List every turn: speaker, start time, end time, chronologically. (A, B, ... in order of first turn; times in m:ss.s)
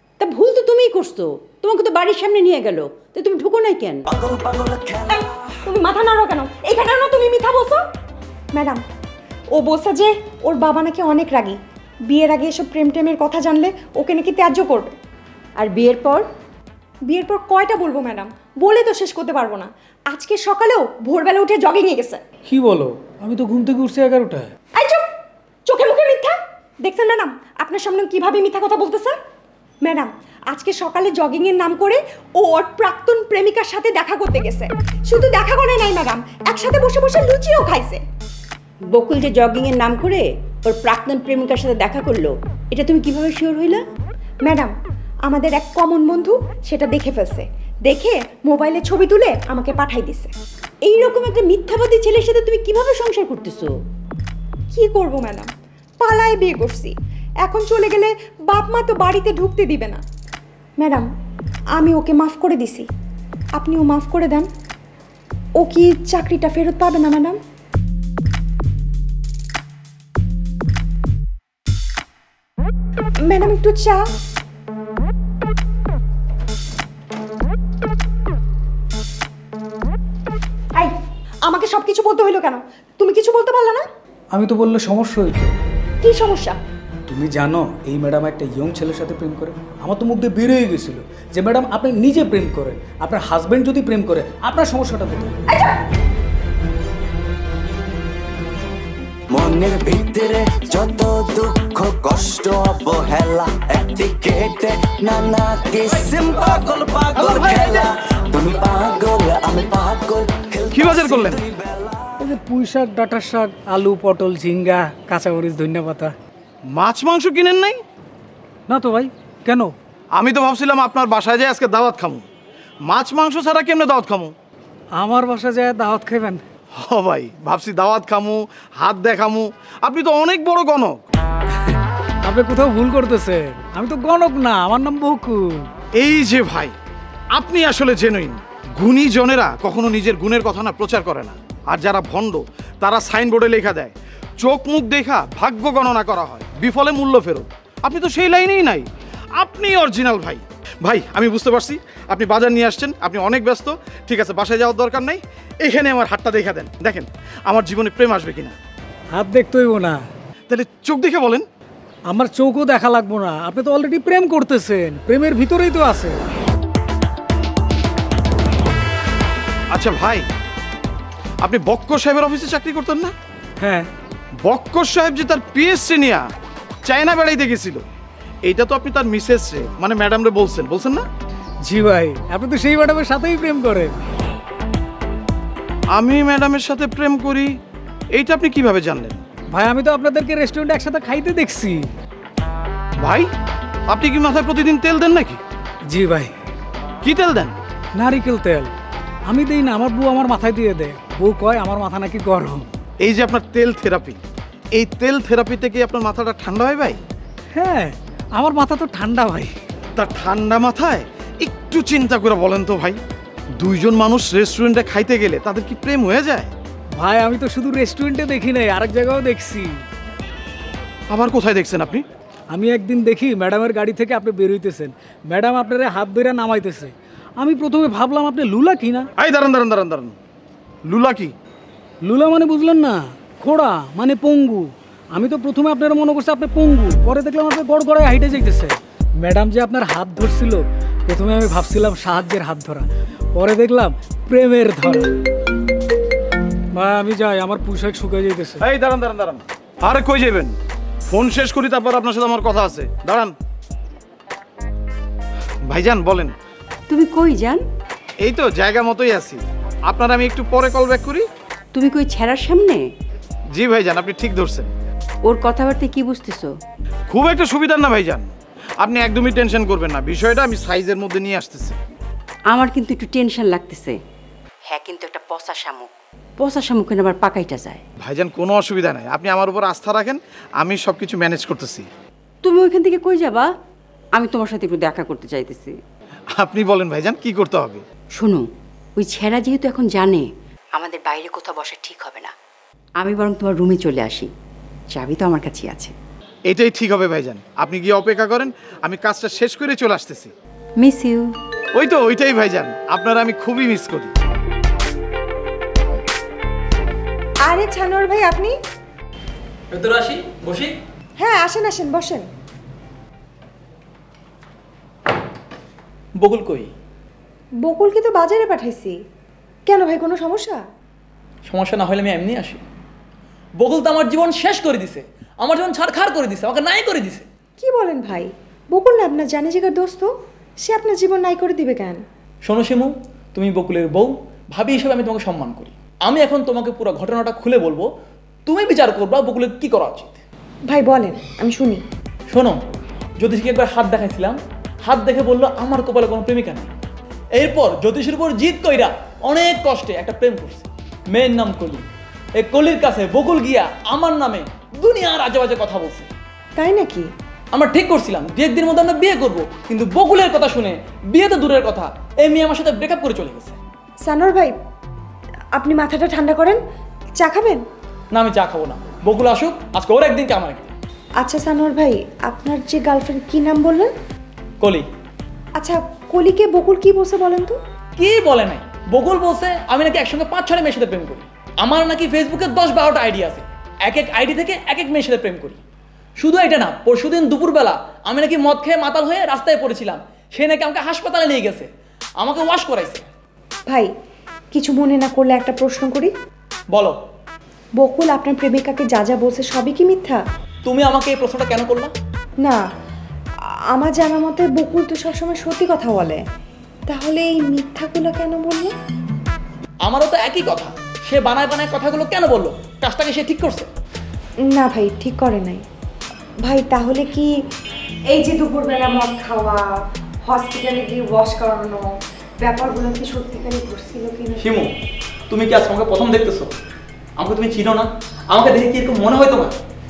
0:00.2-0:04.0 A
0:04.1-0:05.4 B
0:05.1-0:07.8 C
0:08.5-0:08.8 C
0:09.5-0:14.9 C
0:15.6-0:16.3 A
0:17.1-0:22.2 C
0:22.5-0:24.5 D
0:24.8-0:25.1 C
0:25.7-0:29.2 C
0:29.8-0:38.0 C
0:38.9-0:43.8 A
0:44.5-0:44.7 C
0:45.3-0:50.3 C
0:50.8-0:53.7 A
0:54.7-1:00.0 C
1:00.8-1:01.1 C
1:01.7-1:02.9 C
1:03.6-1:04.5 C
1:05.6-1:07.4 C
1:13.2-1:14.0 C
1:20.8-1:23.9 C
1:24.3-1:25.5 D
1:26.0-1:26.6 C
1:27.1-1:35.4 D
1:35.5-1:35.8 C
1:39.3-1:52.1 B
1:47.2-1:47.7 E
1:50.7-1:51.4 E
1:52.2-1:56.2 D
1:56.8-1:57.8 E
1:58.7-1:59.7 D
2:00.2-2:02.2 E
2:02.9-2:04.3 E
2:05.0-2:06.4 D
2:06.8-2:11.0 E
2:11.7-2:15.7 D
2:16.0-2:16.7 E
2:17.4-2:38.6 E
2:39.2-2:40.0 D
2:40.5-2:41.4 E
2:42.1-2:46.2 D
2:49.7-2:50.3 E
2:51.4-2:53.1 E
2:53.6-2:53.9 D
2:54.4-2:56.2 E
2:56.9-2:57.8 E
2:58.5-3:01.1 E
3:01.6-3:04.0 D
3:05.9-3:07.6 E
3:08.1-3:09.2 E
3:09.5-3:11.9 D
3:13.0-3:13.3 E
3:13.9-3:15.4 E
3:15.9-3:16.4 D
3:17.0-3:17.6 E
3:18.0-3:18.7 D
3:19.3-3:22.7 D
3:23.0-3:24.2 E
3:24.8-3:27.0 E
3:27.5-3:29.5 D
3:30.0-3:33.0 E
3:33.6-3:36.5 E
3:37.0-3:39.8 D
3:41.1-3:42.0 E
3:42.5-3:49.1 D
3:49.2-3:50.2 E
3:50.9-3:51.3 E
3:52.0-4:05.1 D
4:06.7-4:08.6 D
4:08.6-4:10.5 E
4:11.1-4:13.4 E
4:15.7-4:16.4 E
4:16.9-4:17.6 A
4:18.2-4:21.3 E
4:21.7-4:22.8 A
4:23.5-4:24.7 E
4:25.2-4:26.5 A
4:27.1-4:31.8 E
4:32.5-4:34.0 A
4:34.7-4:37.8 A
4:38.0-4:41.9 E
4:42.4-4:43.5 A
4:44.2-4:45.8 A
4:46.4-4:47.8 E
4:48.2-4:48.5 A
4:49.0-4:52.3 A
4:53.0-4:54.3 A
4:54.9-4:55.9 A
4:56.5-5:00.3 E
5:00.8-5:01.3 A
5:01.8-5:04.1 E
5:07.4-5:08.6 C
5:09.7-5:10.8 F
5:11.2-5:12.3 C
5:16.2-5:16.7 F
5:17.6-5:19.0 C
5:19.7-5:20.6 C
5:21.5-5:22.6 F
5:23.6-5:27.3 F
5:27.6-5:32.0 C
5:32.4-5:37.9 F
5:38.5-5:40.2 F
5:40.7-5:41.8 C
5:42.3-5:42.6 F
5:43.2-5:46.7 F
5:47.4-5:51.9 F
5:52.4-5:56.1 F
5:56.6-5:57.1 C
5:57.5-6:03.6 F
6:04.0-6:04.6 C
6:05.6-6:06.6 C
6:07.2-6:07.6 C
6:08.1-6:10.7 F
6:11.2-6:13.9 C
6:14.6-6:14.9 F
6:15.6-6:17.6 C
6:18.0-6:25.6 F
6:26.2-6:31.7 F
6:32.2-6:33.1 F
6:34.5-6:36.1 C
6:36.7-6:37.0 F
6:37.8-6:40.2 C
6:40.6-6:41.9 F
6:43.7-6:46.2 C
6:46.9-6:48.7 C
6:49.9-6:53.7 F
6:54.4-6:55.6 C
6:56.4-6:57.3 C
6:58.1-7:04.5 C
7:04.4-7:04.7 F
7:05.3-7:06.5 F
7:07.2-7:09.5 F